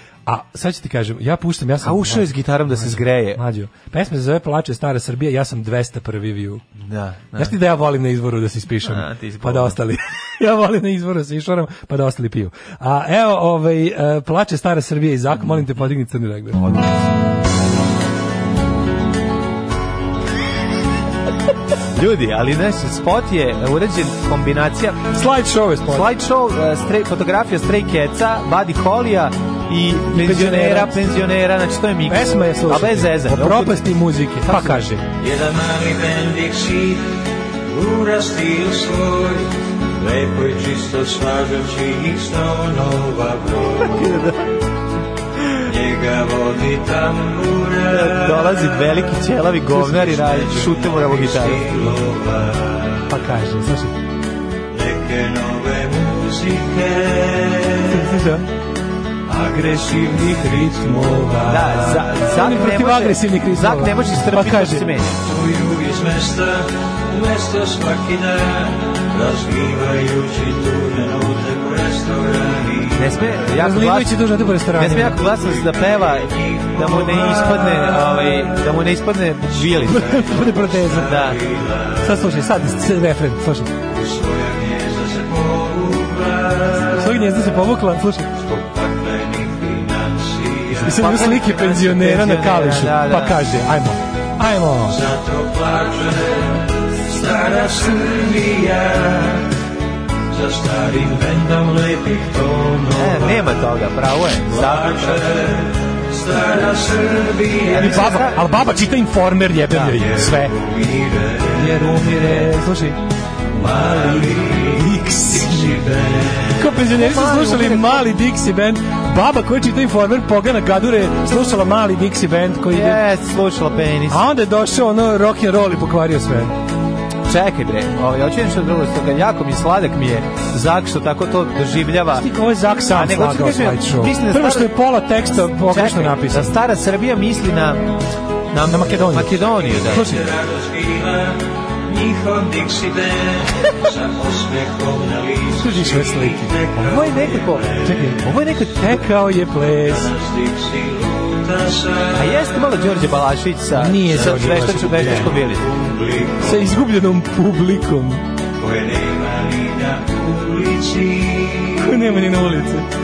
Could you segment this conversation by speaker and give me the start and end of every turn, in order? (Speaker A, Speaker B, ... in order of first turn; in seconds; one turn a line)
Speaker A: 0.2-6.6
Speaker B: 1.8-3.4
Speaker B: 6.8-7.5
Speaker A: 7.3-16.9
Speaker B: 8.8-9.8
Speaker B: 21.9-25.1
Speaker A: 25.1-26.1
Speaker B: 25.9-33.9
Speaker A: 30.1-31.1
Speaker A: 32.1-35.0
Speaker B: 34.4-34.8
Speaker C: 35.2-37.1
Speaker C: 37.6-44.0
Speaker B: 43.8-44.5
Speaker C: 45.6-49.0
Speaker B: 47.9-51.7
Speaker C: 49.8-53.0
Speaker A: 53.1-54.0
Speaker C: 54.7-58.0
Speaker A: 57.9-58.5
Speaker C: 59.3-62.2
Speaker A: 60.2-64.9
Speaker B: 61.5-65.2
Speaker C: 65.1-73.3
Speaker B: 72.9-74.2
Speaker A: 73.5-75.2
Speaker B: 74.7-80.4
Speaker C: 75.3-78.7
Speaker C: 79.6-82.1
Speaker A: 79.8-81.1
Speaker B: 80.9-81.4
Speaker A: 82.0-83.7
Speaker C: 83.9-87.2
Speaker A: 86.8-88.3
Speaker C: 88.4-91.0
Speaker B: 90.7-93.5
Speaker A: 90.8-95.0
Speaker C: 94.9-99.5
Speaker C: 100.3-103.5
Speaker B: 102.9-105.4
Speaker C: 104.5-108.2
Speaker B: 107.7-108.4
Speaker A: 107.7-110.6
Speaker B: 109.7-110.0
Speaker C: 109.8-112.3
Speaker A: 111.5-113.0
Speaker C: 113.5-116.6
Speaker A: 114.5-115.8
Speaker A: 116.5-123.0
Speaker B: 116.7-118.1
Speaker B: 122.7-124.2
Speaker A: 124.1-126.5
Speaker B: 127.2-132.3
Speaker A: 132.1-136.5
Speaker B: 132.9-134.7
Speaker B: 135.3-137.9
Speaker B: 138.5-140.2
Speaker A: 138.7-140.2
Speaker C: 139.7-149.0
Speaker A: 145.6-146.6
Speaker B: 146.8-147.7
Speaker A: 147.8-150.1
Speaker B: 148.2-148.7
Speaker C: 149.7-152.9
Speaker B: 152.1-155.7
Speaker A: 153.7-155.3
Speaker C: 155.1-156.8
Speaker A: 156.4-158.2
Speaker C: 158.6-161.9
Speaker A: 161.8-162.9